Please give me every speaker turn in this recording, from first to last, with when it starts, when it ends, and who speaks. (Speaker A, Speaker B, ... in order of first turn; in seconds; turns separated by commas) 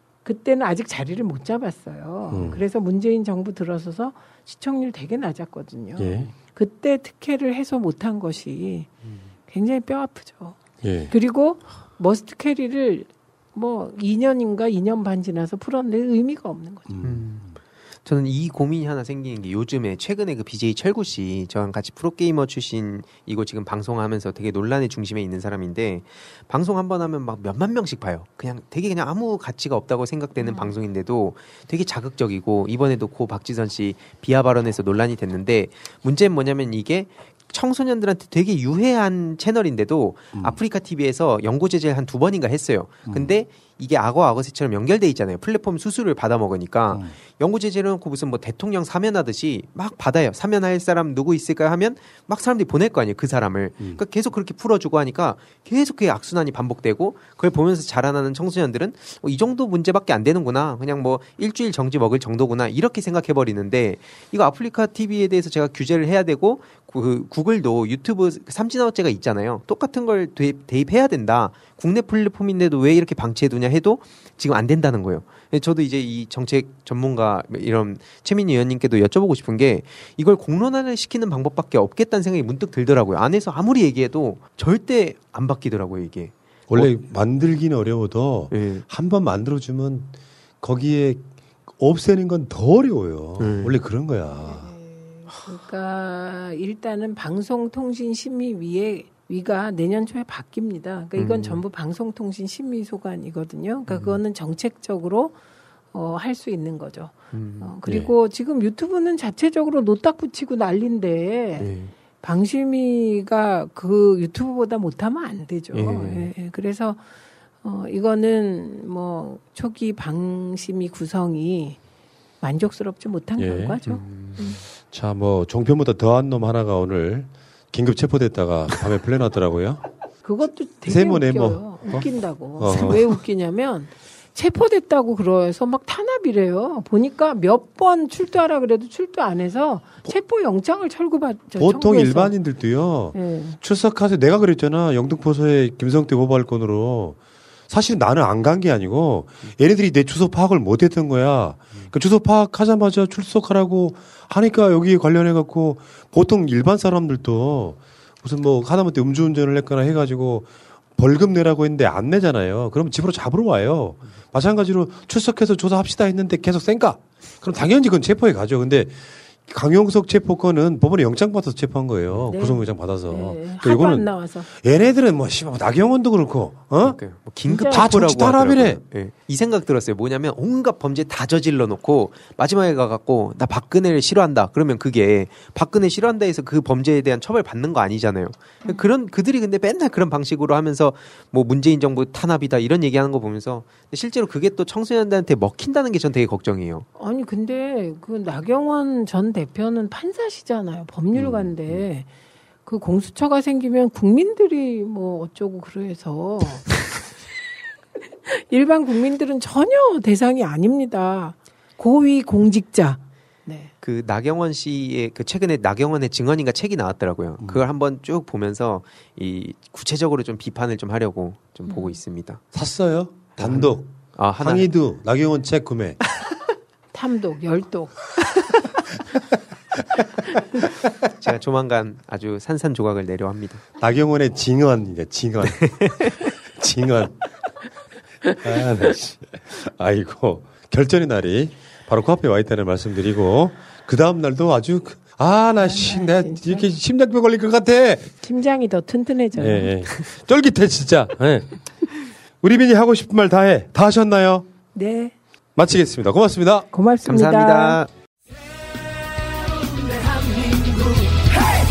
Speaker A: 0.2-8.9, Speaker B: 2.3-2.6, Speaker B: 6.0-6.3, Speaker A: 9.5-10.6, Speaker B: 10.8-11.1, Speaker A: 11.1-16.9, Speaker B: 16.9-17.3, Speaker C: 17.0-86.9, Speaker A: 30.4-30.7, Speaker B: 43.1-43.4, Speaker B: 86.7-91.2, Speaker C: 88.5-88.8, Speaker B: 91.8-94.7, Speaker C: 93.4-93.7, Speaker A: 94.5-105.3, Speaker C: 101.2-101.6, Speaker C: 103.9-104.2, Speaker A: 105.9-111.7, Speaker C: 107.3-107.7, Speaker B: 107.9-108.1, Speaker C: 111.6-111.9, Speaker A: 112.2-117.0, Speaker C: 115.7-116.3, Speaker A: 117.6-121.8, Speaker A: 122.4-124.6, Speaker B: 123.4-123.8, Speaker C: 123.9-124.5, Speaker B: 124.8-129.8, Speaker A: 130.2-142.3, Speaker B: 130.9-132.1, Speaker B: 132.6-133.0, Speaker B: 141.6-147.2, Speaker A: 143.1-143.6, Speaker B: 147.7-177.0, Speaker A: 172.3-174.5, Speaker C: 176.8-196.9, Speaker A: 177.5-177.9, Speaker B: 177.5-178.8, Speaker A: 197.0-202.1, Speaker A: 202.7-206.7, Speaker A: 208.3-213.7, Speaker C: 213.8-222.4, Speaker A: 221.7-221.9, Speaker B: 222.5-226.0, Speaker C: 223.4-224.7, Speaker A: 226.9-227.9, Speaker C: 231.1-233.6, Speaker B: 233.8-235.9, Speaker C: 235.6-235.9, Speaker B: 236.6-237.2, Speaker B: 238.4-248.1, Speaker A: 245.6-246.7, Speaker A: 248.2-249.7, Speaker B: 249.4-251.5, Speaker B: 252.4-254.5, Speaker A: 254.8-255.2, Speaker B: 255.6-256.7, Speaker A: 256.7-257.8, Speaker C: 257.1-257.9